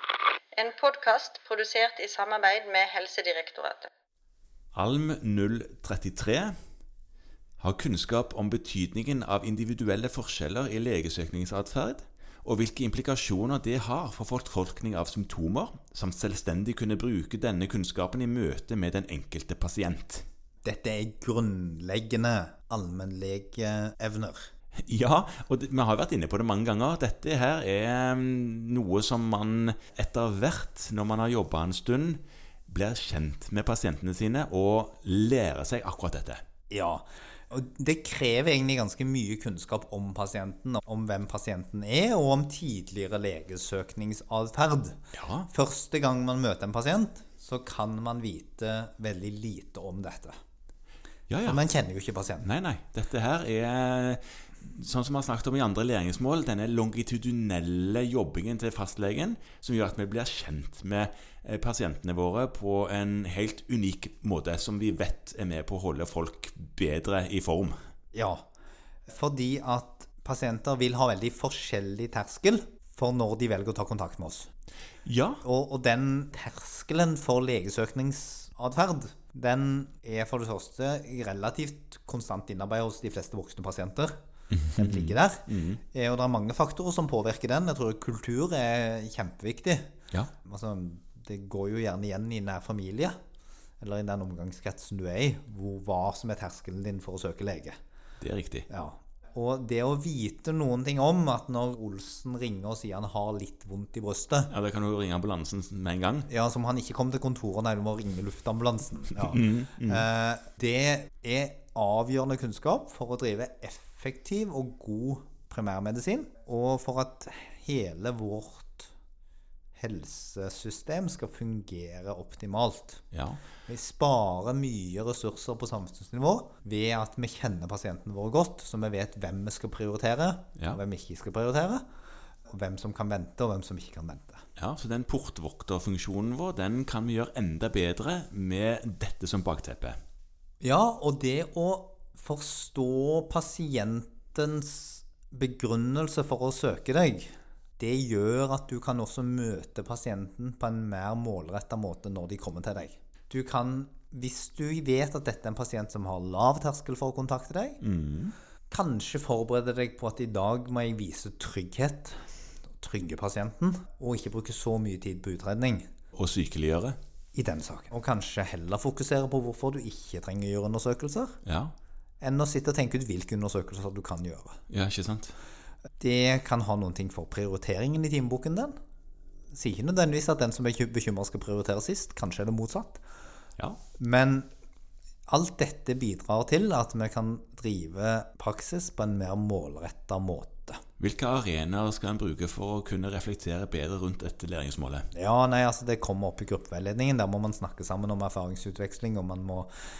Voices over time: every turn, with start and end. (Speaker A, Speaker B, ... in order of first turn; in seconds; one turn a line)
Speaker A: 0.5-3.9
Speaker B: 4.7-6.5
Speaker B: 7.6-20.2
Speaker C: 20.6-24.5
Speaker B: 24.9-36.4
Speaker C: 36.7-50.3
Speaker B: 45.1-45.5
Speaker B: 51.3-51.6
Speaker C: 51.4-52.5
Speaker B: 52.4-67.7
Speaker C: 68.1-68.5
Speaker C: 69.1-74.5
Speaker B: 75.0-75.4
Speaker C: 75.4-84.2
Speaker B: 84.5-85.8
Speaker C: 84.8-89.9
Speaker C: 90.4-93.1
Speaker C: 93.8-97.8
Speaker B: 98.2-98.7
Speaker C: 98.7-104.5
Speaker B: 104.5-106.3
Speaker C: 106.3-118.9
Speaker B: 109.2-110.0
Speaker C: 119.8-123.0
Speaker B: 123.1-123.4
Speaker C: 123.7-131.8
Speaker C: 132.5-134.4
Speaker B: 134.6-140.0
Speaker C: 140.6-157.8
Speaker B: 157.8-158.3
Speaker C: 158.7-162.2
Speaker C: 162.7-165.9
Speaker B: 166.1-167.0
Speaker C: 167.3-171.4
Speaker B: 171.4-171.7
Speaker C: 172.2-174.6
Speaker B: 174.7-175.3
Speaker C: 176.0-178.7
Speaker C: 179.5-183.0
Speaker C: 184.0-184.5
Speaker C: 185.3-190.8
Speaker B: 191.0-195.1
Speaker C: 195.1-199.7